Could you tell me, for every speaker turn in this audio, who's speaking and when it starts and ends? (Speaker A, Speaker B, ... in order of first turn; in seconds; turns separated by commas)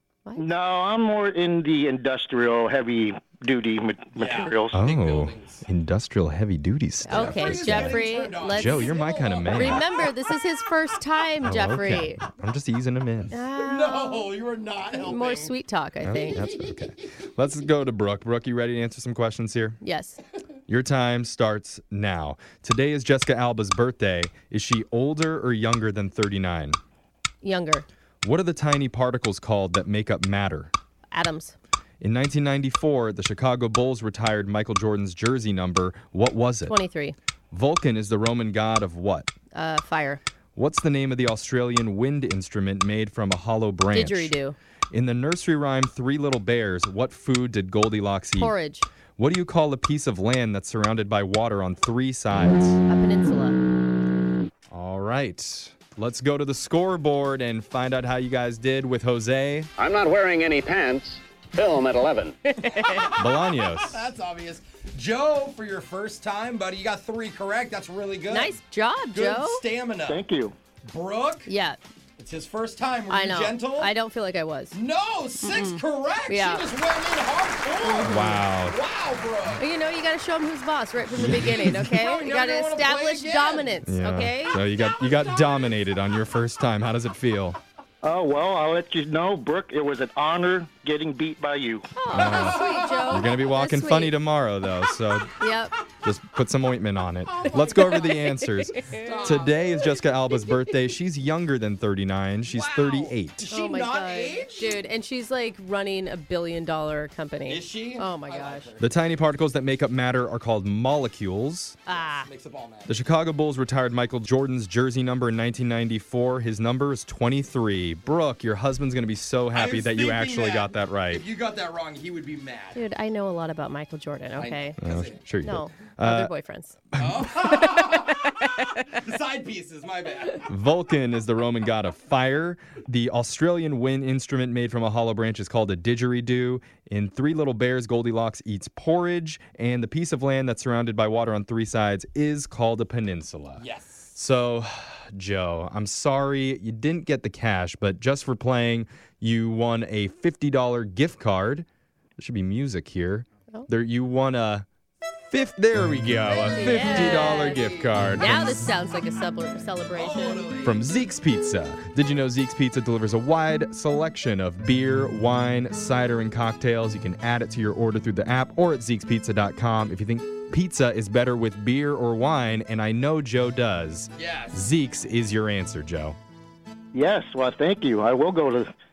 Speaker A: 0.4-4.7, Speaker B: 4.1-5.6, Speaker C: 4.7-9.8, Speaker D: 7.0-12.2, Speaker B: 7.1-10.1, Speaker C: 11.4-13.4, Speaker D: 13.3-14.3, Speaker B: 13.6-15.5, Speaker D: 15.0-16.4, Speaker C: 16.0-19.8, Speaker B: 16.5-16.7, Speaker D: 19.8-20.2, Speaker C: 20.7-26.8, Speaker D: 27.4-27.9, Speaker C: 28.2-30.7, Speaker D: 31.1-31.5, Speaker C: 32.0-36.7, Speaker D: 36.7-37.1, Speaker C: 37.5-39.3, Speaker D: 39.5-40.2, Speaker C: 40.5-44.3, Speaker D: 43.9-44.5, Speaker C: 44.9-48.5, Speaker D: 48.4-48.9, Speaker C: 49.2-52.8, Speaker D: 52.9-53.6, Speaker C: 54.7-59.7, Speaker E: 59.8-62.4, Speaker D: 62.5-63.1, Speaker B: 62.6-68.6, Speaker C: 63.1-64.0, Speaker D: 68.3-69.6, Speaker B: 69.1-70.2, Speaker A: 70.0-70.5, Speaker B: 70.8-71.5, Speaker D: 71.5-71.8, Speaker B: 72.2-73.9, Speaker D: 73.1-74.8, Speaker B: 74.7-79.6, Speaker D: 75.4-76.7, Speaker D: 77.8-78.4, Speaker C: 78.0-78.8, Speaker D: 79.6-84.6, Speaker B: 81.2-83.8, Speaker C: 83.8-87.6, Speaker B: 84.8-85.8, Speaker A: 88.0-91.9, Speaker D: 92.0-94.1, Speaker C: 92.1-95.4, Speaker B: 92.2-93.3, Speaker D: 95.4-95.7, Speaker C: 96.0-103.5, Speaker B: 97.2-98.2, Speaker D: 97.8-99.1, Speaker B: 98.9-99.9, Speaker B: 102.5-104.8, Speaker D: 103.5-108.7, Speaker B: 107.4-109.0, Speaker C: 108.8-111.8, Speaker D: 111.9-112.3, Speaker B: 111.9-113.0, Speaker C: 112.9-121.2, Speaker B: 119.5-122.8, Speaker D: 122.7-124.8, Speaker B: 124.4-125.3, Speaker C: 124.8-126.3, Speaker D: 125.4-126.8, Speaker C: 126.9-127.2, Speaker B: 127.0-130.5, Speaker D: 127.8-128.1, Speaker C: 130.4-151.7, Speaker B: 143.6-144.1, Speaker C: 152.2-154.7, Speaker C: 155.3-158.7, Speaker B: 156.4-158.0, Speaker D: 156.5-157.6, Speaker D: 158.2-160.5, Speaker B: 159.9-160.8, Speaker C: 160.6-176.2, Speaker B: 174.1-174.6, Speaker A: 176.9-178.7